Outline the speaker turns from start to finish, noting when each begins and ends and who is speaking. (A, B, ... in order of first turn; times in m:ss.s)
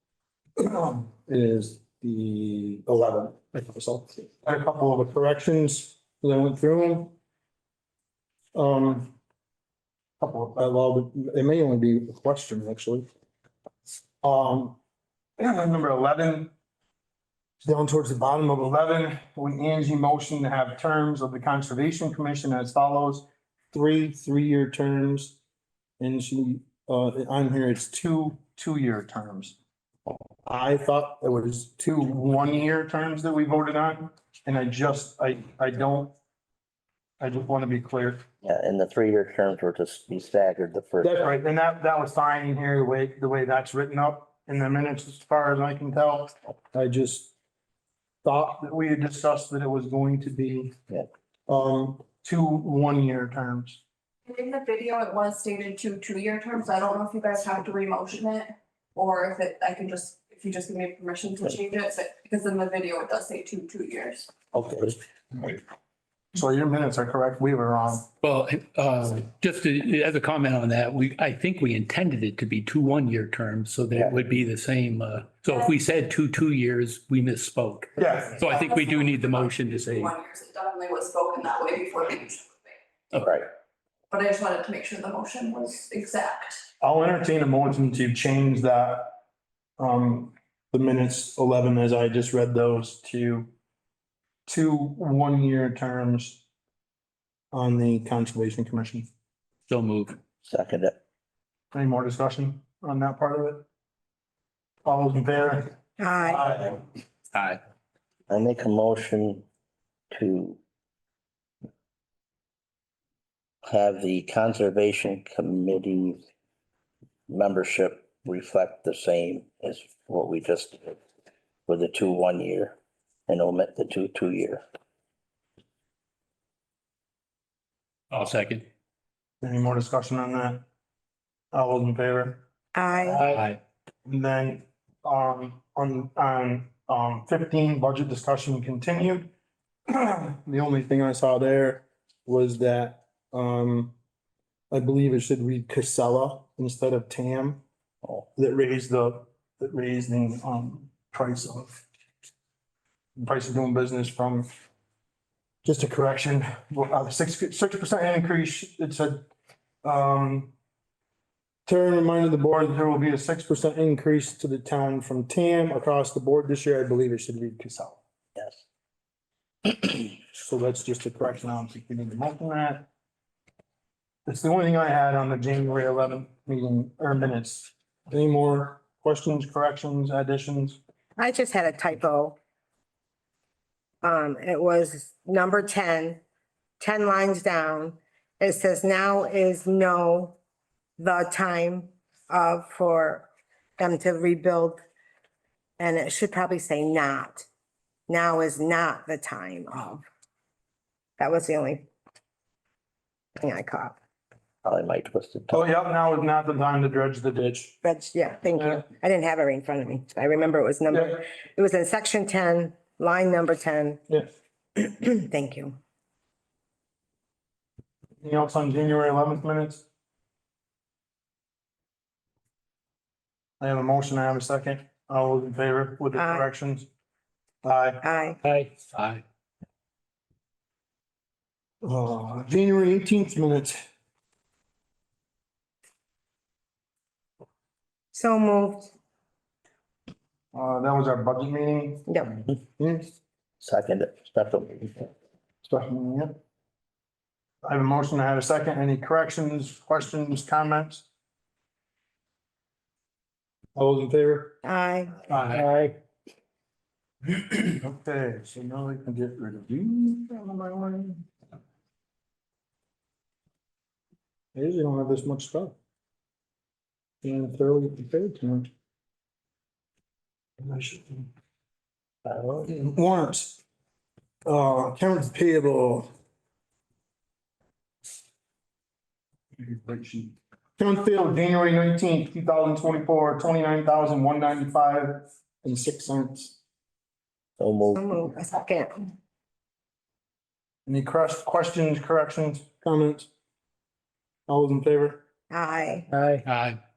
0:00.6-0:07.1 A
0:08.5-0:09.1 A
0:10.2-0:13.0 A
0:14.2-0:14.8 A
0:15.4-0:16.5 A
0:17.6-0:25.4 A
0:26.0-0:29.6 A
0:30.4-0:36.1 A
0:37.2-0:38.2 A
0:38.4-0:41.2 B
0:41.0-0:47.3 A
0:48.2-0:50.8 A
0:51.5-0:53.8 A
0:54.3-1:04.3 C
1:04.5-1:05.6 A
1:06.3-1:08.1 A
1:08.2-1:20.1 D
1:18.0-1:18.4 A
1:18.4-1:22.7 C
1:23.2-1:23.5 B
1:24.1-1:26.6 C
1:26.8-1:29.2 A
1:29.8-1:33.5 A
1:34.5-1:36.4 A
1:37.5-1:39.1 A
1:39.7-1:40.2 D
1:40.4-1:41.0 B
1:41.7-1:43.7 A
1:44.8-1:45.7 A
1:46.0-1:46.5 E
1:46.2-1:46.8 A
1:48.3-1:49.4 B
1:50.1-1:50.6 B
1:53.7-1:56.2 B
1:57.3-2:01.0 B
2:01.7-2:02.8 B
2:03.3-2:04.6 B
2:08.1-2:08.6 D
2:09.4-2:10.6 A
2:11.5-2:12.4 A
2:12.7-2:13.4 E
2:13.2-2:13.6 D
2:14.0-2:19.3 A
2:19.9-2:23.9 A
2:24.7-2:27.6 A
2:28.3-2:31.8 A
2:33.2-2:34.5 A
2:35.6-2:39.2 A
2:39.8-2:40.5 A
2:41.6-2:48.0 A
2:50.3-2:52.9 A
2:54.2-3:00.8 A
3:01.2-3:02.4 E
3:04.0-3:06.2 E
3:06.8-3:10.4 E
3:11.0-3:14.8 E
3:15.8-3:17.5 E
3:18.1-3:20.0 E
3:21.2-3:21.8 E
3:23.4-3:24.0 E
3:24.6-3:25.6 B
3:25.5-3:27.8 A
3:27.8-3:34.0 E
3:28.6-3:28.8 A
3:30.9-3:31.2 A
3:34.8-3:35.8 E
3:38.2-3:39.8 A
3:43.6-3:46.9 A
3:46.1-3:46.4 E
3:47.6-3:48.0 A
3:48.0-3:48.4 E
3:48.4-3:49.2 D
3:51.8-3:53.8 A
3:58.1-3:58.9 E
4:00.5-4:03.1 A
4:02.1-4:02.3 E
4:03.6-4:05.1 B
4:05.6-4:06.4 A
4:07.6-4:11.0 A
4:13.7-4:14.6 A
4:14.6-4:15.2 E
4:15.3-4:15.6 A
4:15.5-4:15.9 D
4:17.3-4:21.3 A
4:24.5-4:25.8 A
4:27.2-4:28.7 A
4:30.6-4:31.3 A
4:32.2-4:33.6 A
4:34.4-4:36.1 A
4:39.6-4:46.6 A
4:47.6-4:48.1 B
4:48.0-4:49.1 E
4:50.8-4:53.3 A
4:54.5-4:55.2 A
4:55.5-4:56.1 E
4:56.3-4:56.8 D